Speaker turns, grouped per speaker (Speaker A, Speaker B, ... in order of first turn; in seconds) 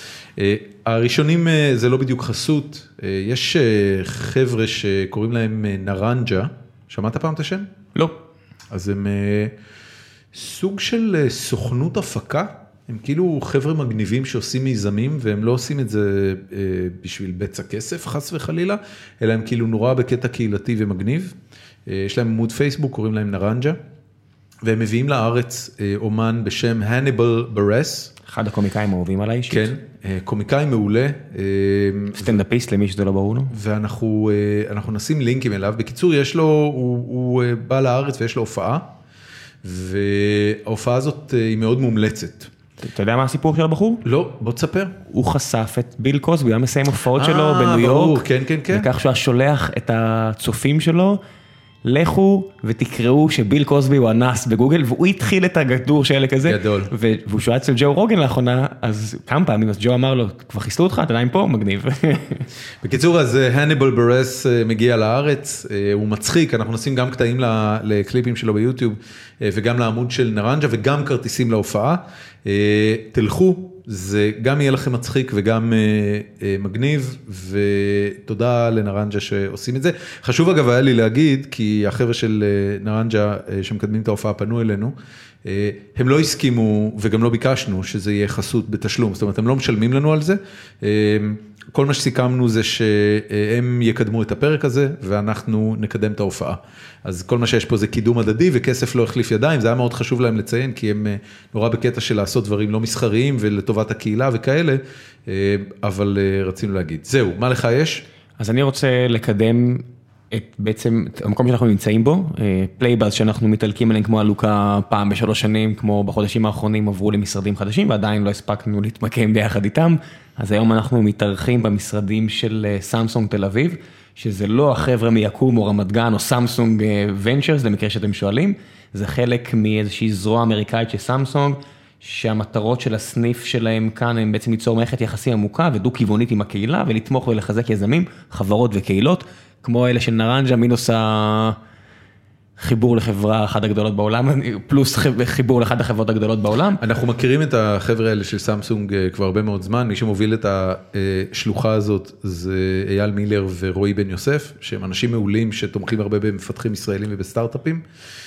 Speaker A: 0.4-7.7, 8.7-9.5, 10.3-21.3, 21.9-23.8, 24.6-28.1, 29.5-32.4, 33.5-38.9, 39.6-42.5, 44.0-45.0, 47.1-48.9, 56.5-56.9, 62.8-108.0, 146.8-157.8
Speaker B: 28.2-29.7, 32.1-33.5, 42.8-44.0, 45.0-51.2, 51.8-62.5, 108.4-141.6, 142.6-146.8